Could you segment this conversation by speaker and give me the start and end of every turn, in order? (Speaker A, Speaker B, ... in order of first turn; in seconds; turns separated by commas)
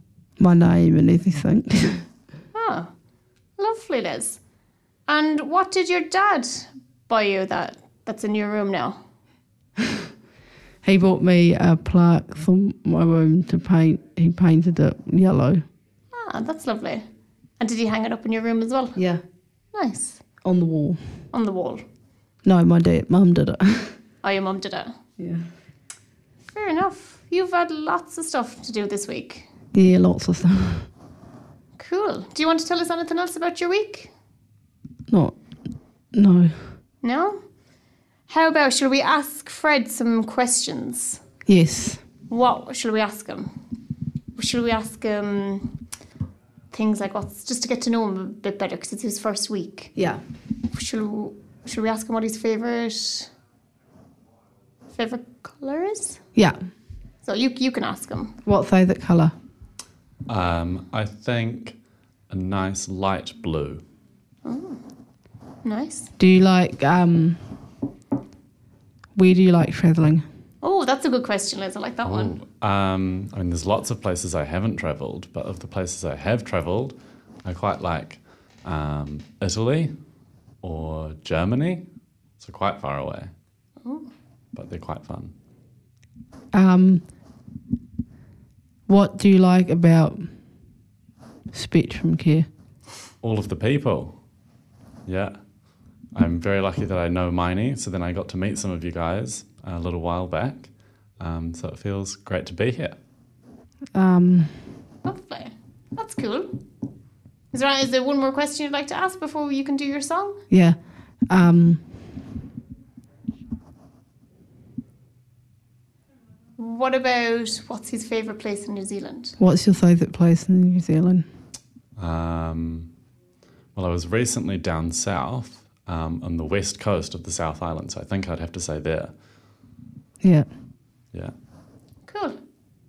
Speaker A: 0.4-2.0, Speaker B: 2.5-2.9, Speaker B: 3.6-4.4, Speaker B: 5.1-9.0, Speaker A: 10.8-15.6, Speaker B: 16.1-17.0, Speaker B: 17.6-19.0, Speaker A: 19.0-19.2, Speaker B: 19.7-20.2, Speaker A: 20.4-21.0, Speaker B: 21.3-21.8, Speaker A: 22.4-23.9, Speaker B: 24.2-24.9, Speaker A: 25.2-25.4, Speaker B: 26.5-29.5, Speaker A: 29.7-30.9, Speaker B: 31.8-34.1, Speaker A: 35.1-35.4, Speaker A: 36.1-36.6, Speaker B: 37.0-37.4, Speaker B: 38.3-41.2, Speaker A: 41.5-42.0, Speaker B: 42.3-43.5, Speaker B: 44.4-45.7, Speaker B: 46.7-49.9, Speaker A: 50.0-50.2, Speaker B: 50.7-53.3, Speaker B: 54.9-56.2, Speaker A: 56.4-56.6, Speaker B: 57.2-58.4, Speaker A: 58.5-59.3, Speaker C: 60.3-61.8, Speaker C: 62.3-63.8, Speaker B: 64.5-64.8, Speaker B: 65.6-66.1, Speaker A: 66.2-67.4, Speaker A: 69.2-70.2, Speaker B: 70.6-72.4, Speaker C: 72.0-79.9, Speaker C: 80.6-81.8, Speaker C: 82.4-83.3, Speaker C: 84.5-85.3, Speaker A: 86.5-87.0, Speaker A: 88.9-90.3, Speaker A: 91.5-92.5, Speaker C: 93.2-94.2, Speaker C: 95.1-95.4, Speaker C: 96.1-103.0, Speaker A: 103.9-104.7, Speaker B: 105.0-106.5, Speaker B: 107.5-110.4, Speaker A: 110.5-110.8, Speaker A: 111.3-111.9, Speaker B: 116.6-119.4, Speaker A: 119.4-121.3, Speaker C: 122.0-122.9, Speaker C: 123.8-129.1, Speaker A: 130.2-130.5, Speaker B: 132.1-132.4